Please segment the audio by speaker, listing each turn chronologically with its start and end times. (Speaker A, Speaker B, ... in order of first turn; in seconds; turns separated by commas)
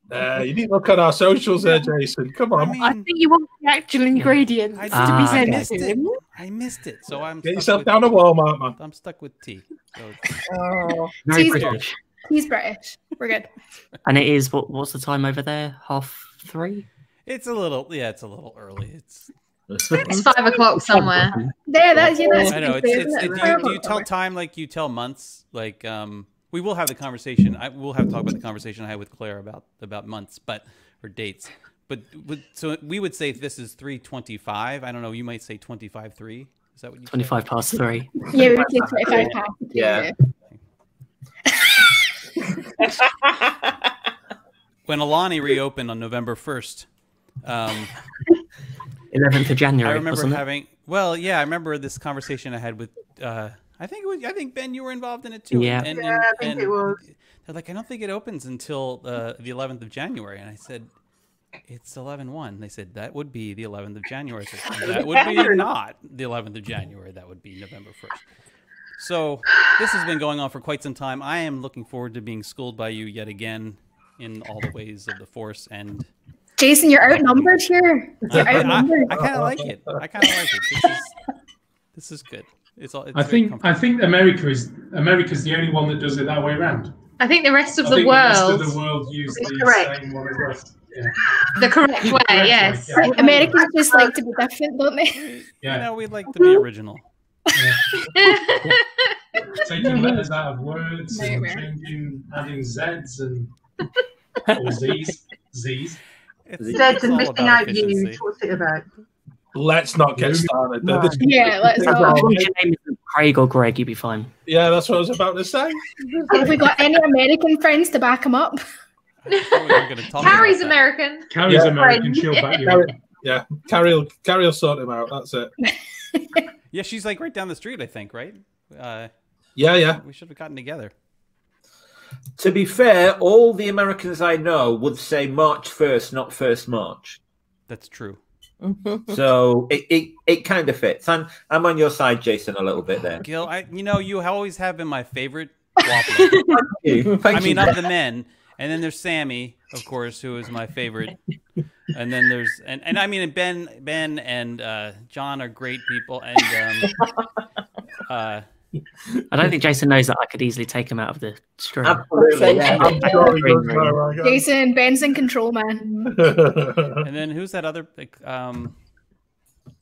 Speaker A: 0.1-2.8, Speaker B: 2.5-3.1, Speaker C: 2.7-6.2, Speaker B: 4.7-8.2, Speaker D: 4.9-5.7, Speaker A: 7.4-8.8, Speaker B: 8.8-10.4, Speaker E: 10.5-11.1, Speaker D: 11.2-11.9, Speaker F: 11.2-13.5, Speaker B: 11.3-11.8, Speaker D: 14.0-16.9, Speaker B: 17.2-19.3, Speaker G: 19.7-20.2, Speaker H: 20.1-21.4, Speaker D: 21.0-22.0, Speaker F: 21.7-24.1, Speaker E: 22.2-22.5, Speaker B: 22.4-37.5, Speaker D: 37.1-38.3, Speaker F: 38.3-40.1, Speaker G: 38.8-40.1, Speaker B: 44.9-46.9, Speaker B: 47.4-47.9, Speaker D: 49.1-50.4, Speaker B: 49.8-60.9, Speaker D: 55.5-55.9, Speaker I: 55.9-57.0, Speaker B: 61.7-68.2, Speaker I: 65.0-65.6, Speaker B: 69.0-76.1, Speaker F: 76.6-79.2, Speaker B: 77.2-77.6, Speaker B: 78.2-81.1, Speaker A: 78.3-79.7, Speaker B: 81.9-83.8, Speaker J: 83.1-86.9, Speaker H: 87.2-88.8, Speaker J: 87.7-91.1, Speaker I: 89.3-89.9, Speaker H: 91.6-93.1, Speaker F: 91.8-92.2, Speaker J: 92.1-93.6, Speaker F: 92.9-95.3, Speaker I: 93.0-94.1, Speaker B: 95.1-97.0, Speaker J: 95.6-95.9, Speaker I: 96.3-96.6, Speaker J: 99.6-103.5, Speaker F: 101.1-101.7, Speaker J: 104.5-106.0, Speaker B: 106.5-108.2, Speaker G: 106.6-106.9, Speaker I: 106.7-108.8, Speaker A: 109.5-112.5, Speaker J: 110.1-110.5, Speaker D: 110.8-111.3, Speaker F: 111.2-112.3, Speaker D: 111.8-114.3, Speaker A: 114.5-116.5, Speaker F: 116.3-118.6, Speaker B: 119.2-120.9, Speaker H: 120.1-121.3, Speaker J: 121.3-122.9, Speaker A: 121.4-121.8, Speaker I: 121.6-122.6, Speaker A: 122.6-125.5, Speaker F: 125.6-126.4, Speaker B: 126.7-129.1, Speaker A: 129.6-130.0, Speaker B: 129.9-130.9, Speaker G: 132.4-137.2, Speaker B: 137.7-138.2, Speaker E: 138.6-139.2, Speaker G: 139.1-143.2, Speaker B: 143.2-146.5, Speaker C: 146.2-146.6, Speaker G: 146.6-147.8, Speaker B: 147.3-151.2, Speaker B: 151.9-157.0, Speaker B: 158.1-158.4, Speaker D: 159.3-164.0, Speaker G: 161.8-163.1, Speaker E: 162.1-163.2, Speaker A: 162.6-164.5, Speaker F: 164.2-166.1, Speaker A: 166.1-167.0, Speaker B: 167.0-168.7